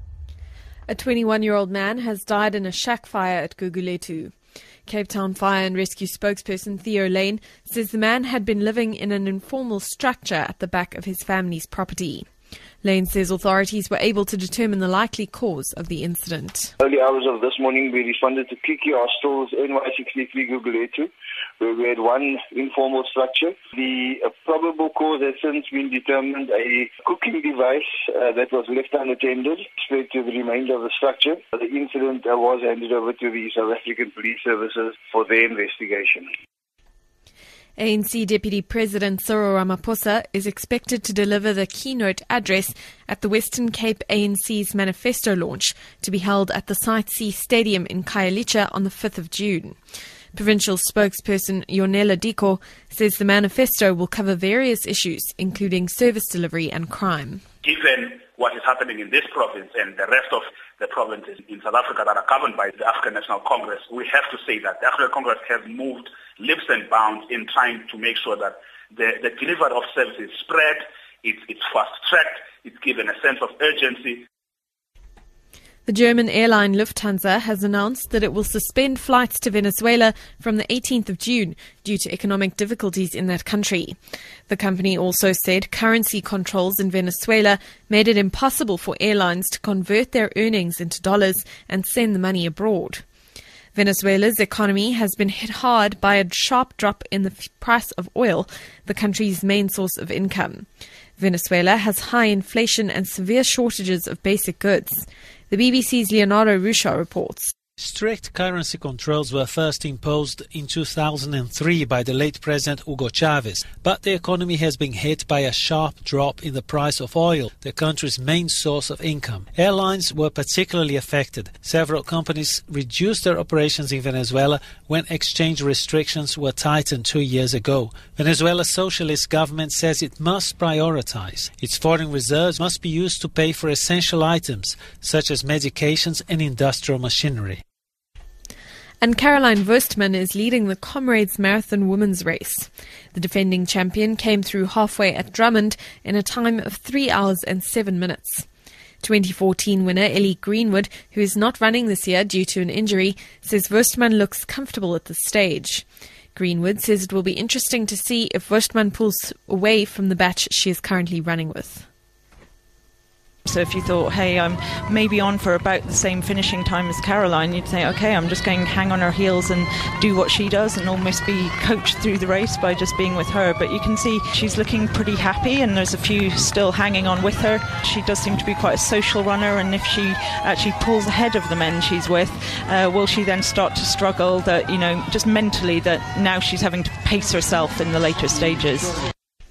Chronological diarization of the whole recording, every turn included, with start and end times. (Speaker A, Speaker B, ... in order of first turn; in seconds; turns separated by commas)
Speaker A: 0.9-4.3, Speaker A: 4.8-12.3, Speaker A: 12.8-16.7, Speaker B: 16.8-36.3, Speaker A: 37.8-49.8, Speaker A: 50.3-57.4, Speaker C: 57.6-74.2, Speaker A: 75.8-84.0, Speaker A: 84.5-93.0, Speaker A: 93.7-100.7, Speaker A: 101.2-107.5, Speaker D: 107.8-137.6, Speaker A: 139.0-148.4, Speaker A: 149.0-161.9, Speaker E: 163.4-189.0